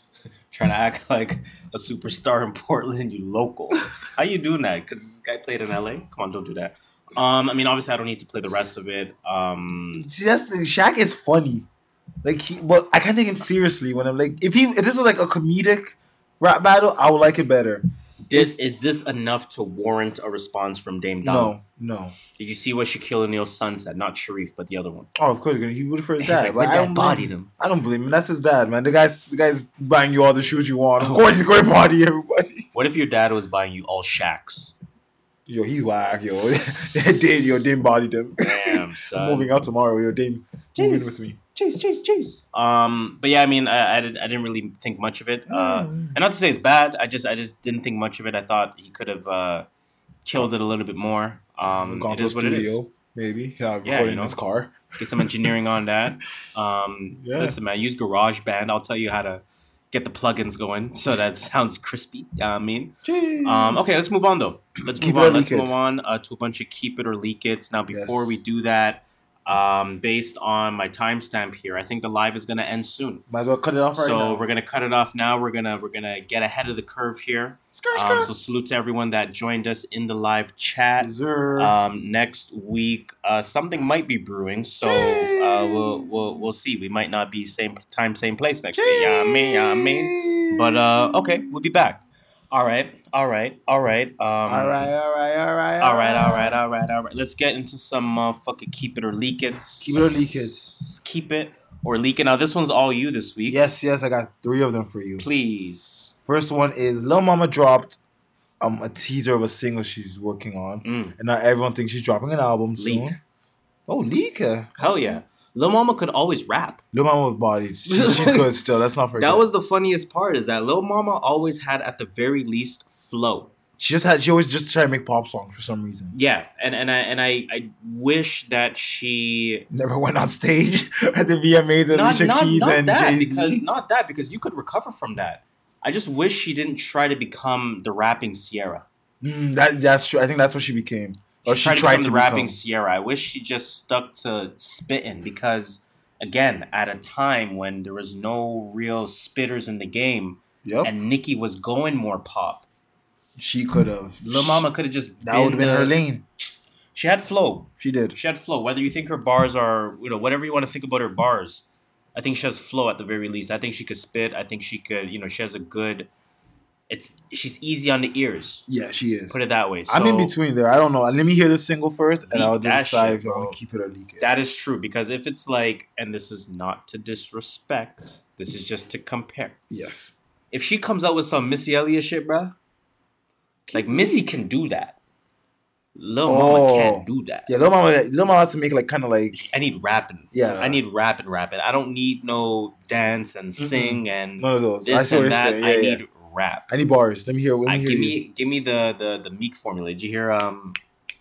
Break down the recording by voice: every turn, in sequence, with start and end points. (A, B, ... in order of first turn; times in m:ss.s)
0:00.5-0:10.1 A
0:10.0-0:11.7 B
0:12.2-0:18.5 B
0:18.2-0:21.6 A
0:21.2-0:22.2 B
0:22.4-0:25.1 A
0:25.1-0:32.7 B
0:26.2-0:27.5 A
0:31.0-0:31.3 A
0:32.7-0:34.7 A
0:35.5-0:41.4 B
0:38.4-0:39.5 A
0:40.7-0:49.7 A
0:45.5-0:46.2 B
0:50.2-0:52.8 A
0:51.6-0:55.5 B
0:53.8-0:54.4 A
0:55.0-1:13.2 A
0:57.2-0:57.6 B
1:03.0-1:03.9 B
1:04.9-1:05.8 B
1:07.9-1:08.4 B
1:13.3-1:14.5 B
1:14.0-1:34.9 A
1:17.7-1:18.3 B
1:21.0-1:21.7 B
1:24.8-1:26.4 B
1:28.8-1:31.5 B
1:34.4-1:36.6 B
1:35.8-1:43.6 A
1:39.8-1:40.8 B
1:43.4-1:45.3 B
1:45.2-1:46.1 A
1:46.2-1:48.0 B
1:48.6-1:53.2 B
1:50.8-1:51.2 A
1:52.8-1:53.2 A
1:53.9-1:55.2 B
1:54.8-1:56.8 A
1:56.9-1:59.4 B
1:57.9-1:58.5 A
1:59.2-2:03.5 A
2:03.8-2:06.1 B
2:06.1-2:09.7 A
2:09.7-2:13.6 B
2:11.9-2:18.8 A
2:19.2-2:22.5 B
2:21.4-2:32.6 A
2:30.6-2:30.9 B
2:33.4-2:34.7 B
2:34.2-2:36.0 A
2:35.2-2:36.2 B
2:36.9-2:41.6 A
2:37.8-2:38.2 B
2:42.1-2:46.1 A
2:46.9-2:48.7 A
2:48.7-2:54.3 B
2:49.3-2:50.3 A
2:52.3-2:53.6 A
2:54.2-2:59.6 A
2:59.7-3:00.1 B
3:00.5-3:02.5 A
3:03.7-3:04.4 B
3:03.7-3:05.0 A
3:06.0-3:07.5 A
3:06.2-3:09.4 B
3:09.3-3:16.6 A
3:10.3-3:10.8 B
3:13.6-3:16.0 B
3:16.7-3:18.2 B
3:17.6-3:20.8 A